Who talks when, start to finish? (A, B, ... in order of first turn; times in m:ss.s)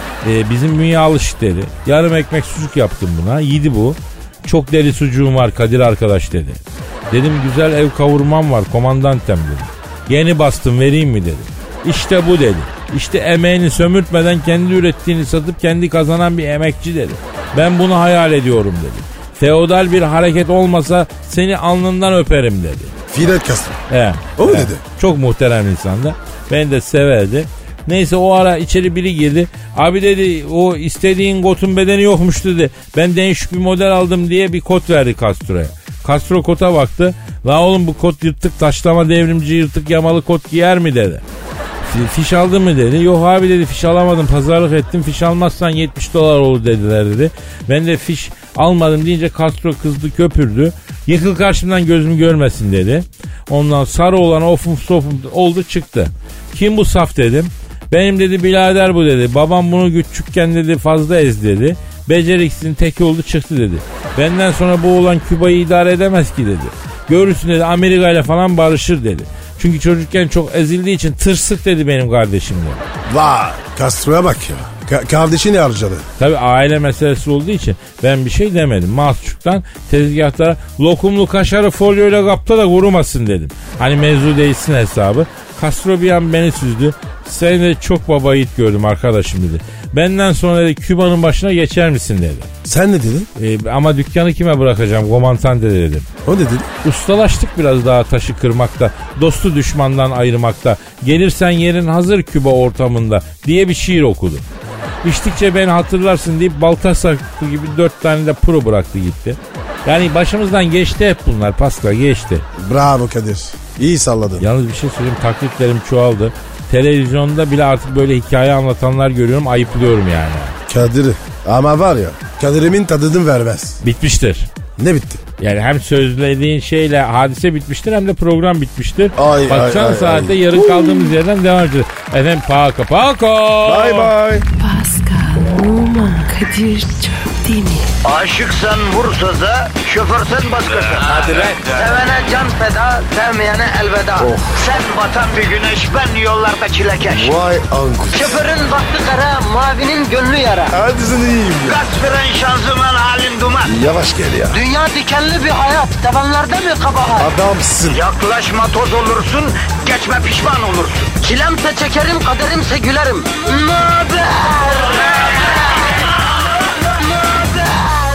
0:00.2-0:23.0 A
0:23.1-0:23.8 B
0:23.9-0:41.2 A
0:24.4-0:24.8 B
0:41.9-1:12.9 A
1:13.1-1:16.1 B
1:16.2-1:32.5 A
1:32.6-1:33.3 B
1:33.4-1:36.1 A
1:36.2-1:36.7 B
1:36.8-1:44.4 A
1:45.0-1:52.4 A
1:52.6-1:54.5 B
1:54.4-2:00.6 A
2:00.7-2:03.8 B
2:03.8-2:04.5 A
2:04.8-2:05.2 B
2:05.4-2:14.1 A
2:09.2-2:11.1 B
2:13.6-2:14.5 B
2:14.6-2:17.9 C
2:18.0-2:27.4 D
2:24.2-2:24.6 B
2:27.1-2:28.4 B
2:28.1-2:30.8 D
2:30.7-2:31.8 B
2:31.6-2:33.8 D
2:33.7-2:34.6 B
2:34.5-2:37.3 D
2:37.2-2:38.0 B
2:37.9-2:45.5 D
2:46.8-2:48.0 D